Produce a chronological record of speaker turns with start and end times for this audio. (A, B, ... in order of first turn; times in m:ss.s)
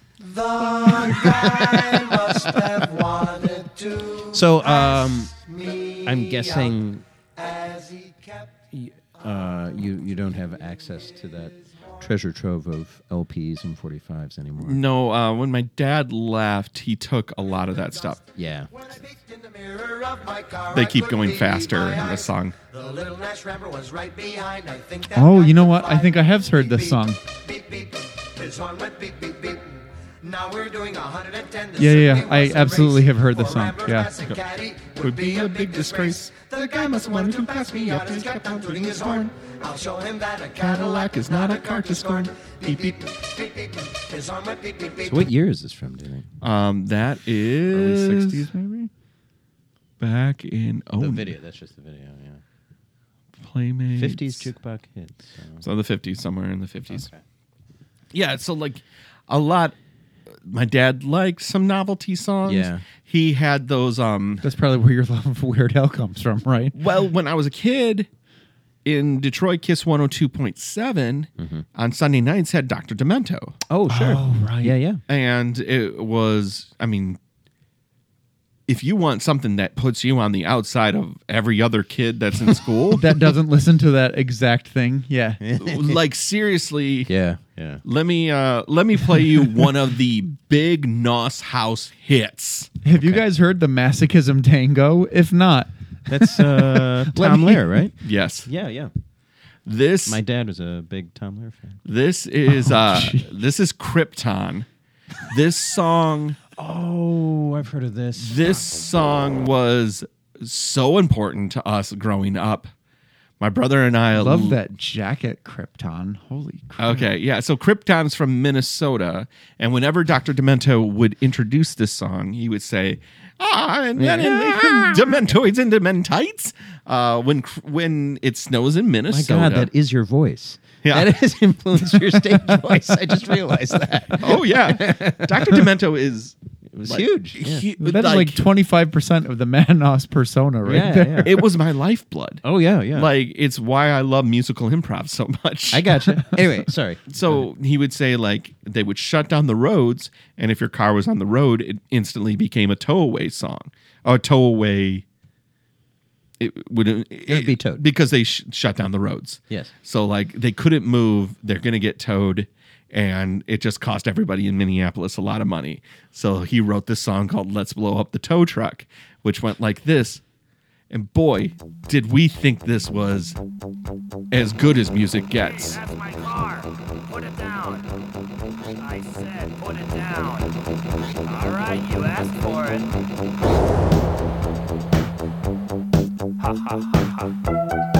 0:00.2-0:06.7 A
0:01.0-0:02.6 B
0:04.3-0:05.3 C
0:06.0-0:07.0 C
0:07.3-0:08.7 A
0:08.7-0:14.8 C
0:14.6-0:18.2 B
0:17.7-0:45.3 A
0:18.4-0:18.7 C
0:20.7-0:22.5 B
0:25.1-0:27.2 D
0:31.8-0:34.1 D
0:35.0-0:39.3 B
0:40.6-0:42.9 B
0:45.0-0:46.3 C
0:46.4-0:48.5 B
0:47.7-0:48.5 C
0:48.6-0:48.9 D
0:50.0-0:51.3 B
0:51.0-0:52.4 C
0:53.4-0:54.5 B
0:54.0-0:55.6 C
0:55.6-0:57.1 B
0:56.9-0:57.2 C
0:58.1-0:59.7 B
1:00.4-1:04.4 B
1:02.4-1:02.8 C
1:04.4-1:06.8 D
1:06.8-1:08.1 B
1:08.8-1:13.6 B
1:11.4-1:11.6 C
1:13.7-1:15.0 C
1:13.9-1:14.7 D
1:15.1-1:17.2 B
1:18.7-1:23.1 B
1:23.0-1:25.4 D
1:25.4-1:26.0 C
1:25.6-1:27.1 B
1:27.1-1:27.8 C
1:27.8-1:32.7 B
1:32.8-1:37.8 D
1:36.1-1:37.9 C
1:38.0-1:38.5 B
1:38.4-1:38.9 C
1:39.6-1:40.2 B
1:40.0-1:41.8 C
1:41.8-1:44.7 B
1:42.5-1:43.2 D
1:45.3-1:46.4 B
1:46.6-1:48.8 C
1:48.2-1:52.7 B
1:53.4-1:54.6 B
1:54.1-1:57.1 D
1:56.8-2:09.7 B
2:04.0-2:05.3 C
2:09.1-2:15.7 C
2:10.8-2:11.1 B
2:14.2-2:18.4 B
2:16.7-2:17.6 C
2:17.8-2:21.3 D
2:20.6-2:21.3 C
2:21.2-2:26.0 B
2:22.4-2:23.1 C
2:25.7-2:27.4 C
2:27.1-2:35.0 B
2:36.4-2:50.2 B
2:37.3-2:37.8 C
2:50.9-2:53.4 B
2:54.3-2:55.8 B
2:55.4-2:57.9 E
2:58.8-3:00.5 E
3:01.2-3:03.0 E
3:06.4-3:07.3 E